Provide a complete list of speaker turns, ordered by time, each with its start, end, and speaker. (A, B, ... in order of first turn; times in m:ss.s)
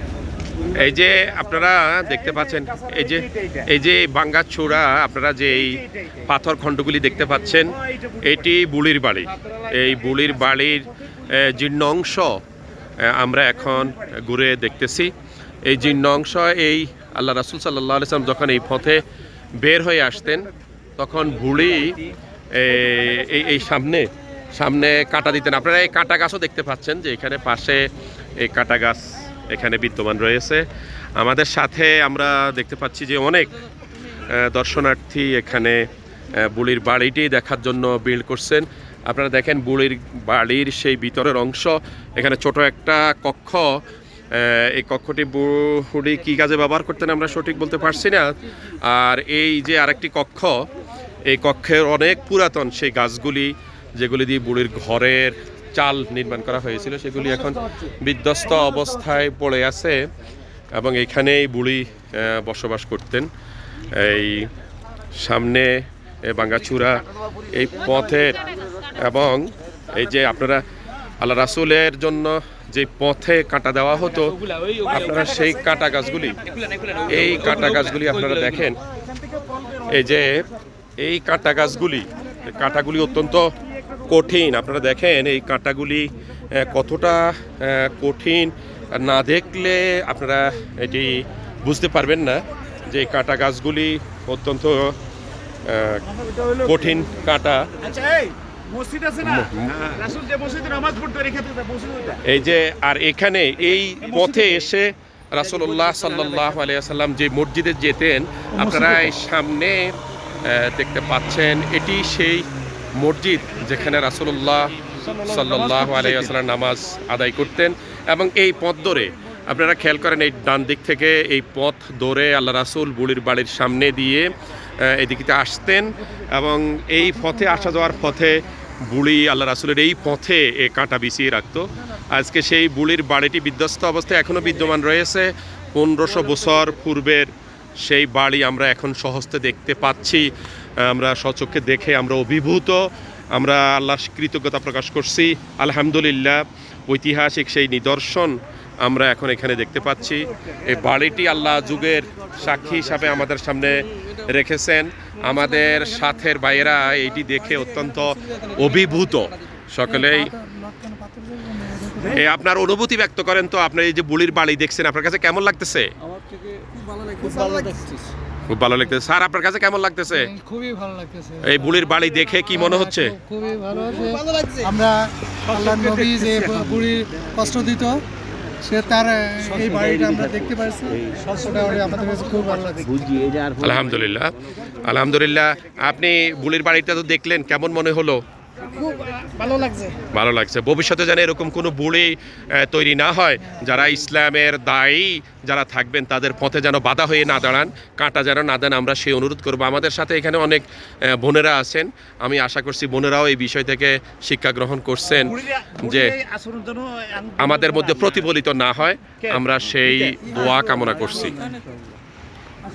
0:00.7-0:12.4 A
0:13.0-0:15.1 A
0:15.6-0:19.0 A
0:19.6-0:20.5 A
0:21.0-0:22.0 A
0:22.5-0:30.6 A
0:31.2-0:33.5 A
0:34.2-0:35.8 A
0:36.3-0:43.8 A
0:44.3-0:50.6 A
0:51.3-1:00.0 A
1:00.8-1:03.3 A
1:03.9-1:04.5 A
1:05.2-1:08.4 A
1:09.0-1:10.6 A
1:11.2-1:16.4 A
1:17.1-1:18.8 A
1:19.8-1:20.4 A
1:21.0-1:23.5 A
1:24.1-1:35.0 A
1:35.6-1:36.0 A
1:36.6-1:37.7 A
1:37.9-1:39.1 B
1:39.1-1:40.2 A
1:40.2-1:42.1 B
1:42.2-2:40.3 A
2:40.0-2:42.1 C
2:42.0-2:45.9 A
2:46.1-2:48.1 B
2:47.2-2:47.9 C
2:48.5-2:50.3 A
2:50.2-2:51.6 C
2:51.4-2:53.2 A
2:52.6-2:58.0 C
2:53.9-2:54.6 B
2:58.6-3:03.1 C
2:59.5-3:04.0 B
3:03.6-3:04.3 A
3:04.8-3:08.2 A
3:08.8-3:10.0 C
3:10.1-3:26.2 A
3:25.5-3:27.4 B
3:27.4-3:31.5 A